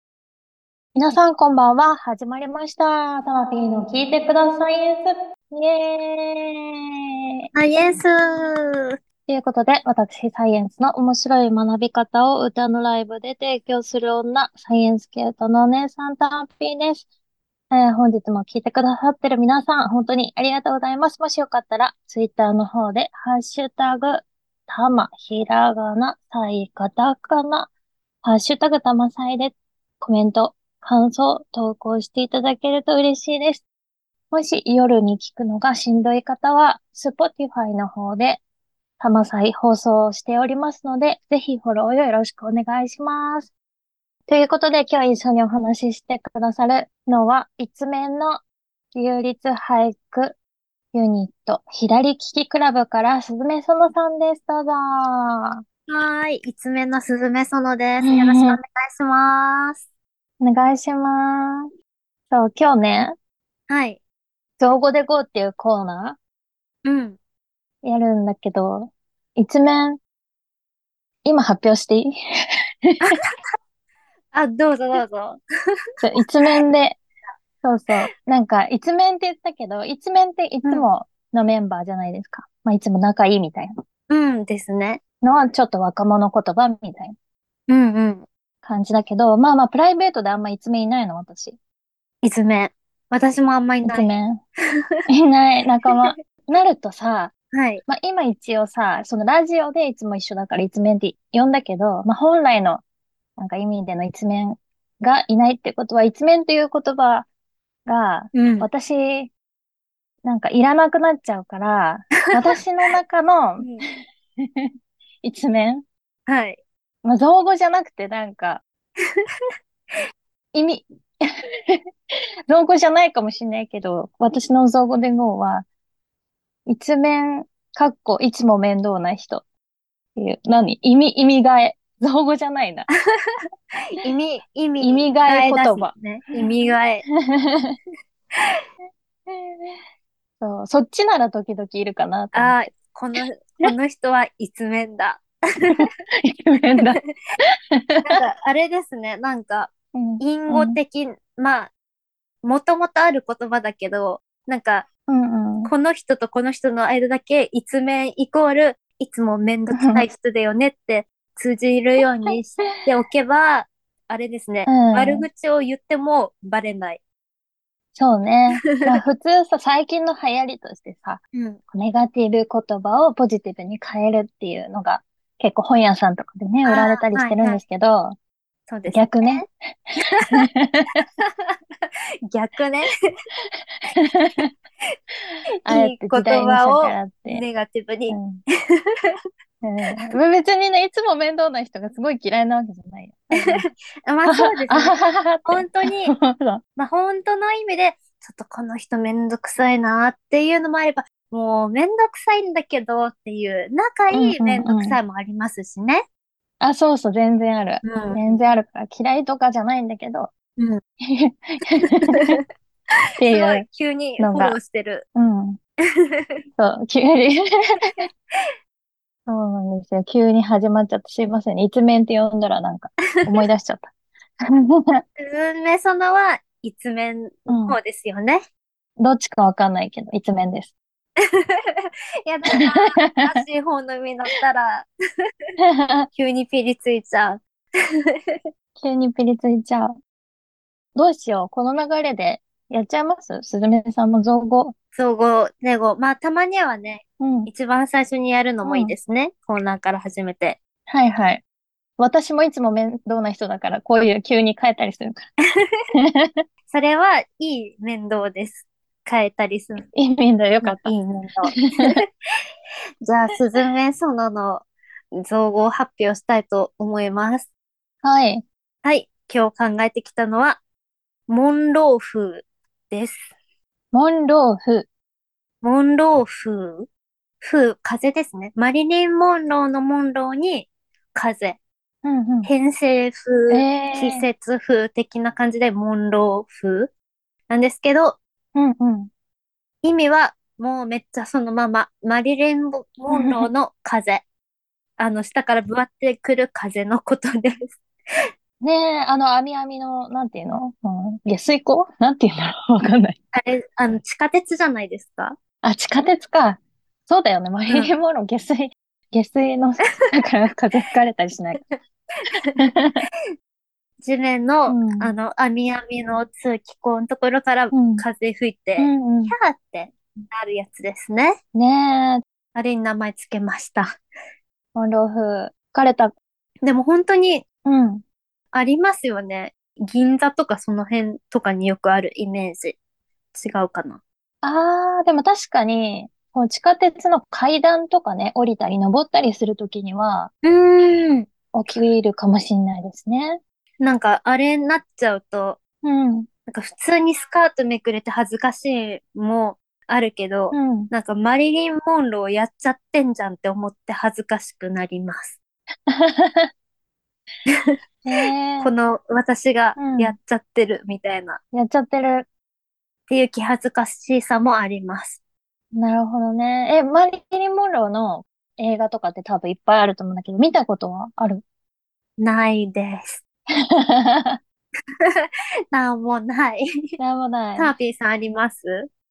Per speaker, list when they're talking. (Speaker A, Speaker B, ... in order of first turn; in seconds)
Speaker A: 0.9-6.8, 9.3-17.1, 17.7-27.7, 28.2-33.6, 34.3-38.4, 39.0-43.5, 44.3-48.4, 48.9-50.4, 50.9-55.6, 58.0-58.6, 60.4-61.7, 62.3-63.1, 64.6-66.2, 67.8-70.0, 71.2-72.1, 72.8-73.2, 76.0-77.0, 77.6-83.7, 85.2-87.2, 88.6-91.6, 93.8-94.4, 95.1-97.3, 97.8-102.8, 103.4-107.3, 107.9-109.3, 110.2-114.7, 115.2-115.8, 117.0-118.6, 120.5-121.8, 122.5-125.7, 126.7-129.4, 130.2-132.9, 134.8-135.9, 137.1-137.8, 139.3-139.8, 140.4-142.6, 145.7-147.0, 147.7-148.2, 149.9-150.8, 155.1-155.7, 159.7-160.0, 164.7-165.3, 167.9-178.2, 178.9-179.5, 180.3-181.0, 183.8-184.5, 185.7-187.4, 188.1-188.4, 189.6-193.7, 194.3-196.6, 204.1-205.0, 206.6-210.3, 211.0-212.4, 213.2-213.7, 214.2-214.6, 215.2-215.6, 216.6-218.1, 219.3-223.9, 224.5-225.0, 227.5-227.8, 229.0-230.7, 232.6-233.4, 235.6-236.1, 238.8-240.0, 240.9-244.7, 247.2-247.5, 248.6-248.9, 250.9-251.4, 252.0-255.3, 255.9-256.4, 259.9-260.9, 261.5-261.9, 268.0-268.4, 273.9-274.9, 282.0-282.5, 283.5-284.3, 288.6-289.1, 293.1-293.5, 298.6-303.2, 305.6-311.6, 312.6-313.0, 314.7-315.1, 317.7-318.1, 318.8-319.3, 321.6-322.2, 324.8-326.1, 327.6-328.0, 334.4-340.3, 341.5-343.4, 345.8-346.3, 350.5-350.9, 355.9-356.5, 358.1-358.7, 359.8-360.2, 361.5-362.3, 365.7-371.4, 373.7-374.4, 377.0-377.7
Speaker B: 7.5-8.9, 55.9-59.8, 63.7-64.0, 66.8-67.2, 74.3-75.4, 84.1-85.0, 87.7-88.3, 92.2-94.1, 97.5-97.8, 108.3-108.7, 116.3-116.6, 133.9-137.0, 142.3-145.8, 148.1-151.7, 152.4-154.9, 155.6-167.0, 171.3-171.6, 176.7-177.6, 178.7-179.4, 180.1-180.4, 181.2-181.6, 182.3-182.9, 185.7-188.2, 193.4-196.1, 196.8-206.0, 207.8-208.2, 210.6-210.8, 211.8-212.4, 213.2-215.1, 216.2-216.4, 225.2-228.4, 231.3-234.9, 236.2-237.4, 238.1-238.4, 244.9-250.6, 256.7-259.9, 260.6-261.9, 263.1-267.5, 268.8-270.6, 271.3-273.3, 275.6-276.9, 277.4-281.6, 282.4-286.9, 287.5-288.2, 289.8-294.2, 295.0-297.8, 303.3-305.4, 311.6-312.6, 314.0-321.4, 322.6-323.9, 326.6-327.4, 328.5-332.8, 333.3-334.0, 340.4-341.3, 343.8-345.6, 346.5-355.4, 358.6-361.4, 363.1-365.2, 372.2-373.2, 375.1-376.7, 377.6-378.9